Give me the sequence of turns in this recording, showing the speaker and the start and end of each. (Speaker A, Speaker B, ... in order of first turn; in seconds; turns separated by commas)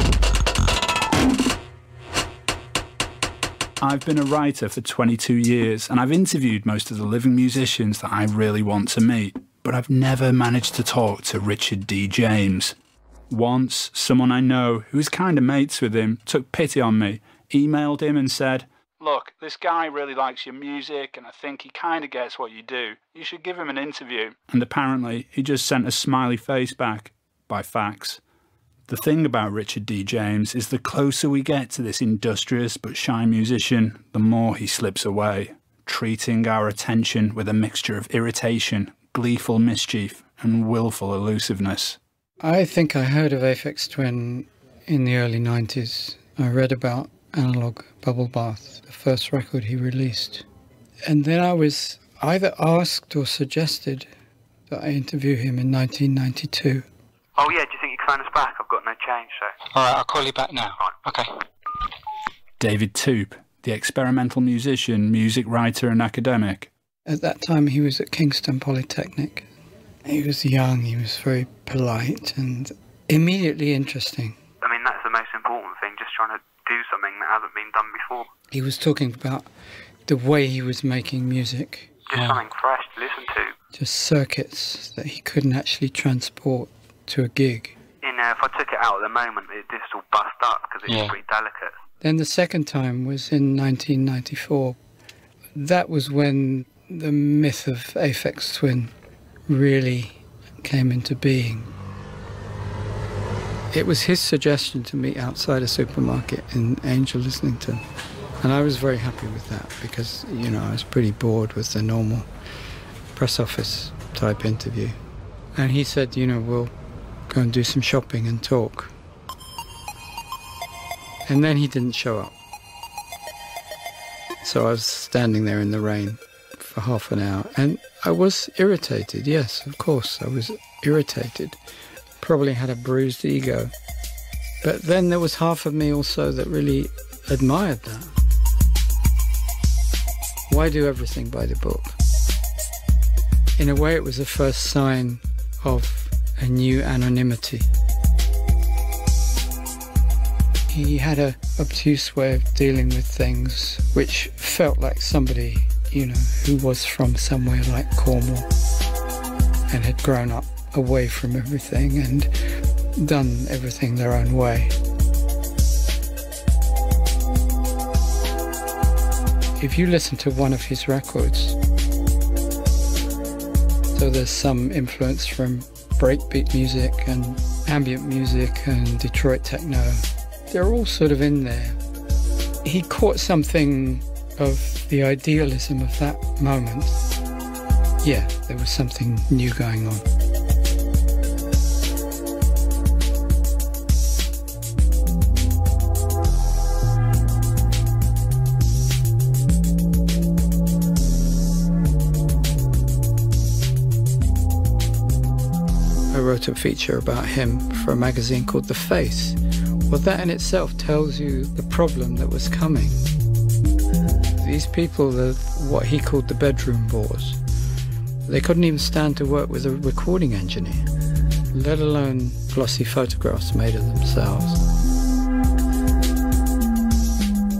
Speaker A: 3.8-12.7, Speaker A: 13.3-28.2, Speaker A: 28.9-42.0, Speaker B: 42.4-50.4, Speaker B: 51.0-54.1, Speaker B: 54.7-56.9, Speaker C: 57.4-59.6, Speaker D: 59.7-61.3, Speaker A: 62.6-66.7, Speaker B: 67.0-69.5, Speaker B: 70.0-74.3, Speaker C: 74.6-78.3, Speaker B: 78.5-79.5, Speaker B: 80.1-81.9, Speaker C: 82.1-83.5, Speaker D: 82.1-82.4, Speaker B: 83.7-87.7, Speaker C: 88.0-91.7, Speaker D: 90.9-91.2, Speaker B: 92.0-94.8, Speaker B: 95.5-98.9, Speaker B: 99.5-101.7, Speaker B: 103.7-107.8, Speaker B: 108.4-112.3, Speaker B: 113.1-115.0, Speaker B: 115.5-116.7, Speaker B: 117.3-118.9, Speaker B: 121.2-122.3, Speaker B: 124.4-131.6, Speaker B: 132.2-133.7, Speaker B: 134.6-138.1, Speaker B: 140.5-142.0, Speaker B: 143.6-147.7, Speaker B: 150.7-158.5, Speaker B: 159.7-162.3, Speaker B: 162.9-164.7, Speaker B: 169.6-171.6, Speaker B: 173.9-181.8, Speaker B: 182.6-187.0, Speaker B: 188.0-190.0, Speaker B: 206.1-213.0, Speaker B: 214.4-217.4, Speaker B: 218.2-220.8, Speaker B: 221.5-224.6